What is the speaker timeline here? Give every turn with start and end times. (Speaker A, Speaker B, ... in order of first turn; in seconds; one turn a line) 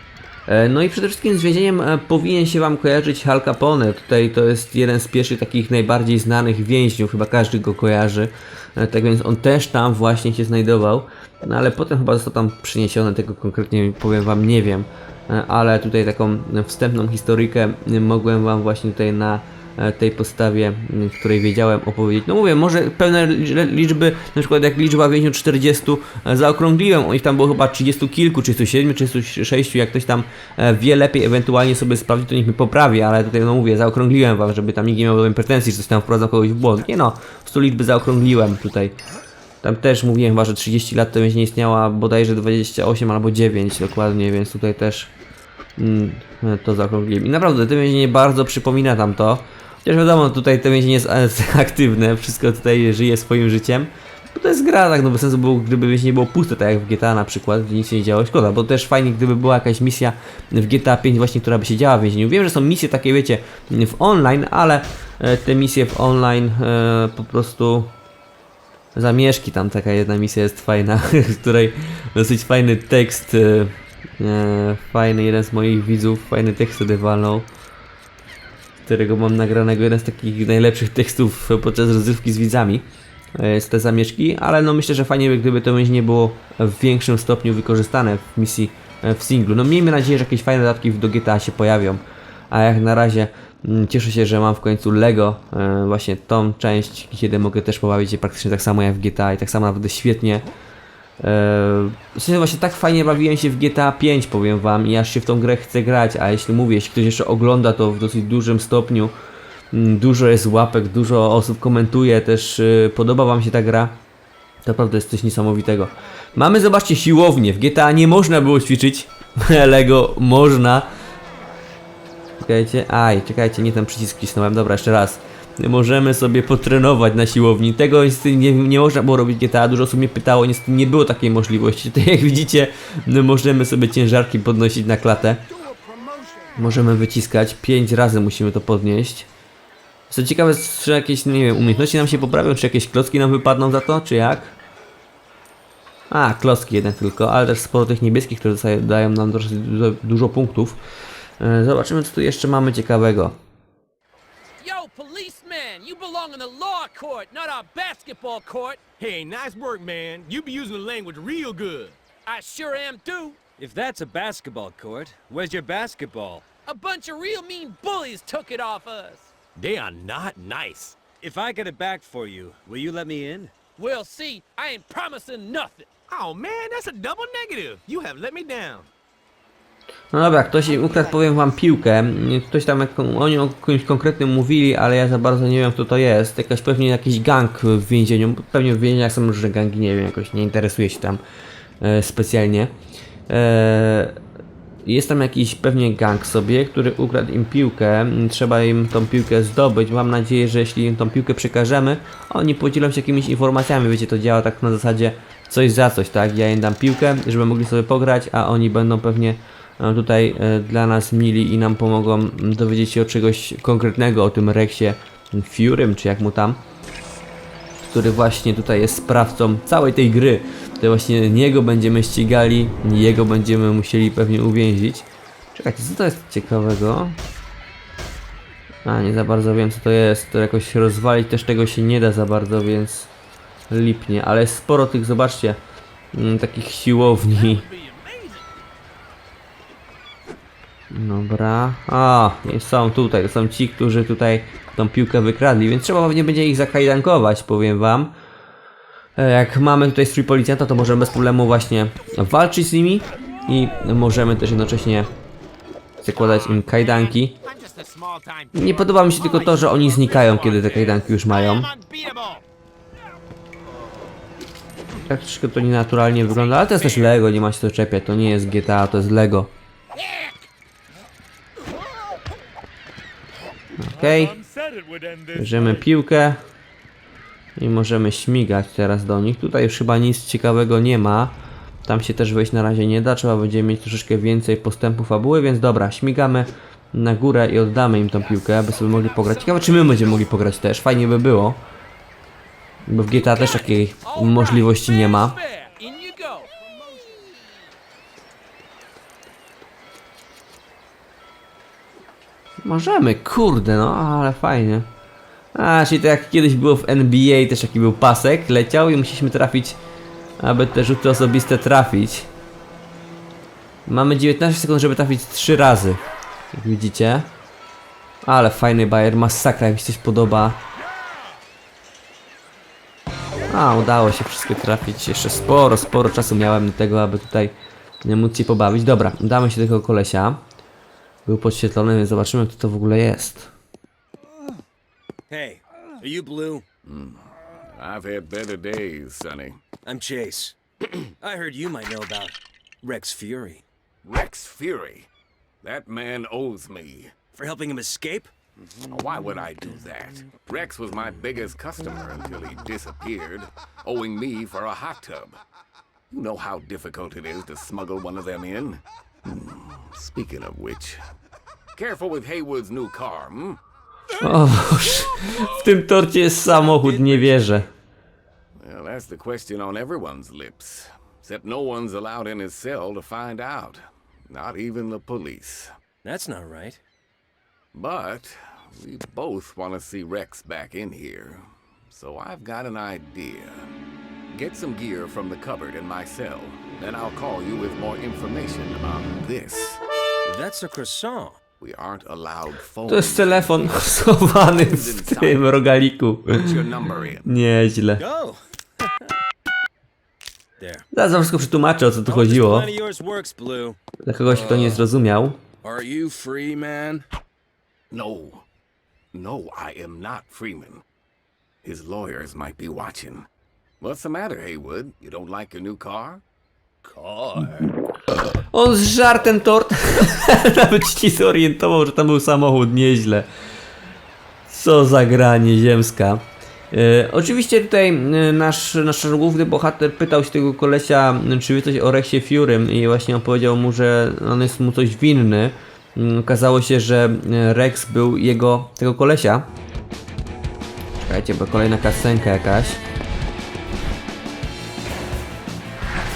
Speaker A: 0.5-38.9
Speaker A: 39.6-45.1
Speaker A: 45.8-67.9
Speaker A: 68.9-77.5
Speaker A: 78.8-82.8
Speaker A: 83.4-100.5
Speaker A: 101.2-109.1
Speaker A: 109.7-114.0
Speaker A: 114.6-120.9
Speaker A: 122.4-135.4
Speaker B: 135.5-136.7
Speaker A: 136.6-139.3
Speaker A: 140.1-144.5
Speaker A: 146.1-150.8
Speaker A: 151.4-153.4
Speaker C: 154.6-158.8
Speaker B: 159.0-161.9
Speaker C: 162.2-163.4
Speaker D: 163.6-166.4
Speaker C: 166.7-169.3
Speaker B: 169.6-170.9
Speaker D: 171.0-173.5
Speaker C: 173.8-175.9
Speaker B: 176.1-178.9
Speaker A: 180.1-191.2
Speaker A: 191.8-192.7
Speaker A: 193.3-194.2
Speaker A: 194.8-216.6
Speaker A: 217.8-227.2
Speaker A: 228.8-233.1
Speaker A: 233.7-235.6
Speaker A: 236.1-237.6
Speaker C: 237.7-238.4
Speaker A: 240.9-248.1
Speaker A: 249.2-255.1
Speaker A: 256.0-257.4
Speaker C: 257.4-258.5
Speaker A: 258.5-261.7
Speaker B: 259.3-262.4
Speaker A: 265.1-269.5
Speaker B: 269.9-270.5
Speaker A: 273.8-274.3
Speaker B: 274.4-275.3
Speaker A: 275.3-276.4
Speaker A: 277.6-291.6
Speaker A: 292.9-295.4
Speaker C: 293.1-296.5
Speaker B: 296.6-297.4
Speaker A: 302.6-304.9
Speaker A: 305.5-309.8
Speaker A: 310.4-312.3
Speaker A: 313.9-316.0
Speaker A: 316.5-317.3
Speaker A: 318.2-320.6
Speaker A: 323.5-330.4
Speaker A: 331.2-333.5
Speaker D: 335.3-336.6
Speaker E: 336.8-339.6
Speaker D: 339.8-343.6
Speaker E: 344.0-345.1
Speaker E: 345.6-347.1
Speaker D: 347.3-348.3
Speaker E: 348.6-355.4
Speaker E: 356.1-361.0
Speaker E: 361.7-363.6
Speaker A: 364.2-367.7
Speaker D: 366.6-367.7
Speaker E: 368.6-375.7
Speaker D: 376.0-376.8
Speaker E: 377.7-383.7
Speaker E: 384.3-389.8
Speaker D: 390.2-391.4
Speaker E: 391.6-395.5
Speaker A: 392.9-396.6
Speaker E: 396.3-397.3
Speaker A: 397.2-398.0
Speaker D: 398.0-399.1
Speaker D: 400.6-400.8
Speaker A: 400.9-402.7
Speaker D: 402.1-403.8
Speaker A: 404.0-405.4
Speaker D: 405.6-407.0
Speaker E: 407.9-408.4
Speaker E: 409.1-410.8
Speaker E: 411.6-413.3
Speaker E: 413.8-416.2
Speaker D: 416.9-417.3
Speaker A: 418.5-423.3
Speaker A: 424.5-439.5
Speaker A: 441.0-442.8